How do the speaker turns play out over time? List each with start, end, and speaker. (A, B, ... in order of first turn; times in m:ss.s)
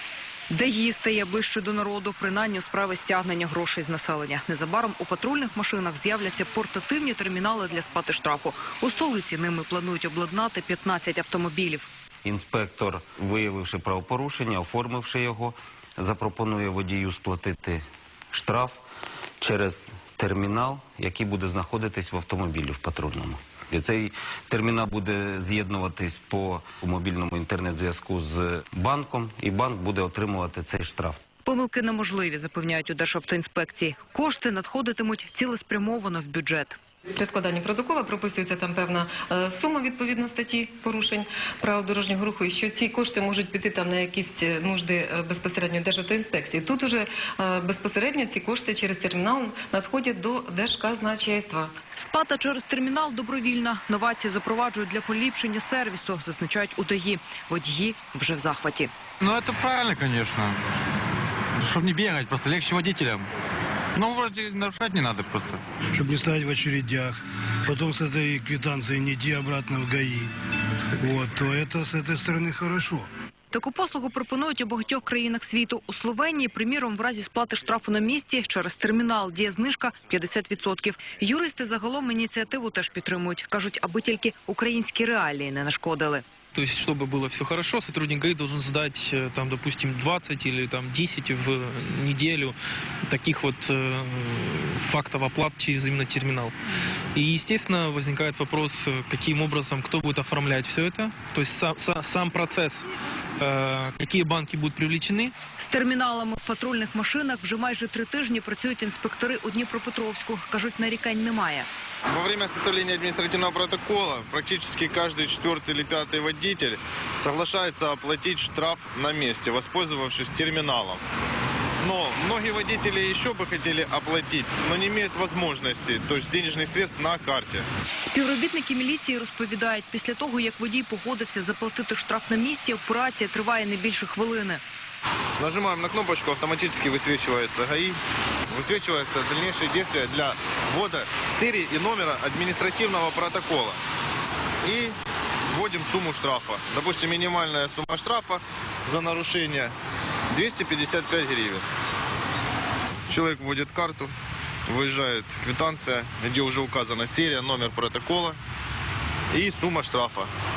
0:00.5-0:11.9 A
0:12.2-0:17.8 B
0:18.3-0:18.8 B
0:19.4-0:31.2 B
0:31.4-0:36.8 A
0:37.2-0:51.7 C
0:52.0-0:58.9 A
0:59.2-1:00.6 D
1:01.6-1:03.2 D
1:04.0-1:05.6 D
1:05.9-1:10.3 E
1:11.0-1:13.1 E
1:13.5-1:26.2 A
1:26.5-1:32.5 F
1:33.1-1:36.5 F
1:37.1-1:42.9 F
1:43.4-1:45.3 F
1:45.6-1:51.7 A
1:52.1-2:01.0 G
2:01.8-2:07.6 G
2:08.0-2:14.6 A
2:15.4-2:18.0 G
2:18.5-2:23.8 G
2:24.6-2:24.9 G
2:25.5-2:29.7 G
2:30.3-2:31.6 G
2:33.1-2:34.1 G
2:34.7-2:38.4 G
2:39.3-2:40.3 G